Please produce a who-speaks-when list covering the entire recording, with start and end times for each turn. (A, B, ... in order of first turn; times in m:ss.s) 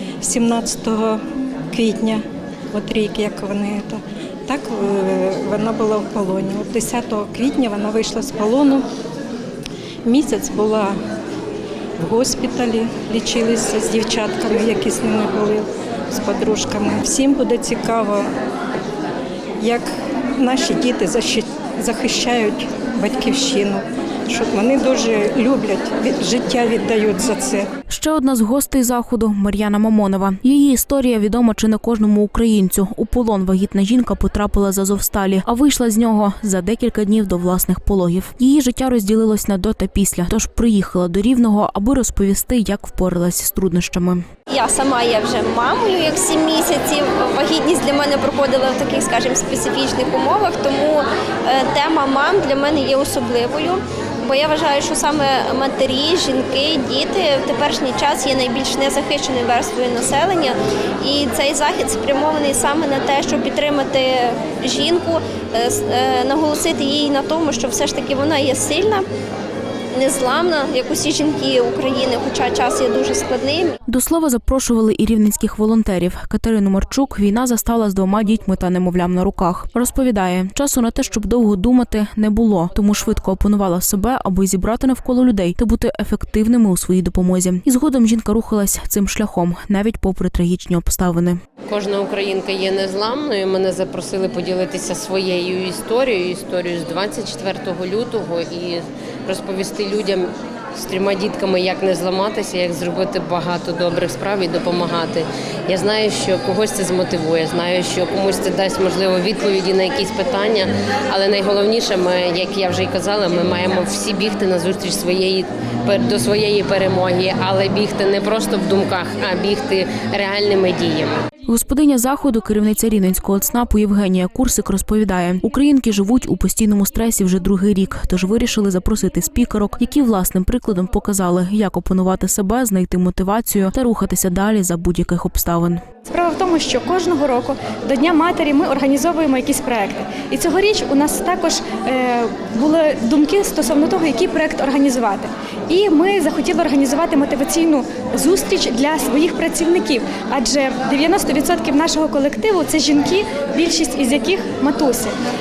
0:00.2-0:08.9 A
0:10.0-0:11.0 A
0:12.0-0:18.3 A
0:19.6-0:27.7 A
0:27.9-0:44.2 B
0:44.5-1:09.0 C
1:09.9-1:13.8 C
1:13.9-1:31.4 B
1:31.7-2:01.2 D
2:01.5-2:15.8 B
2:16.0-2:35.1 E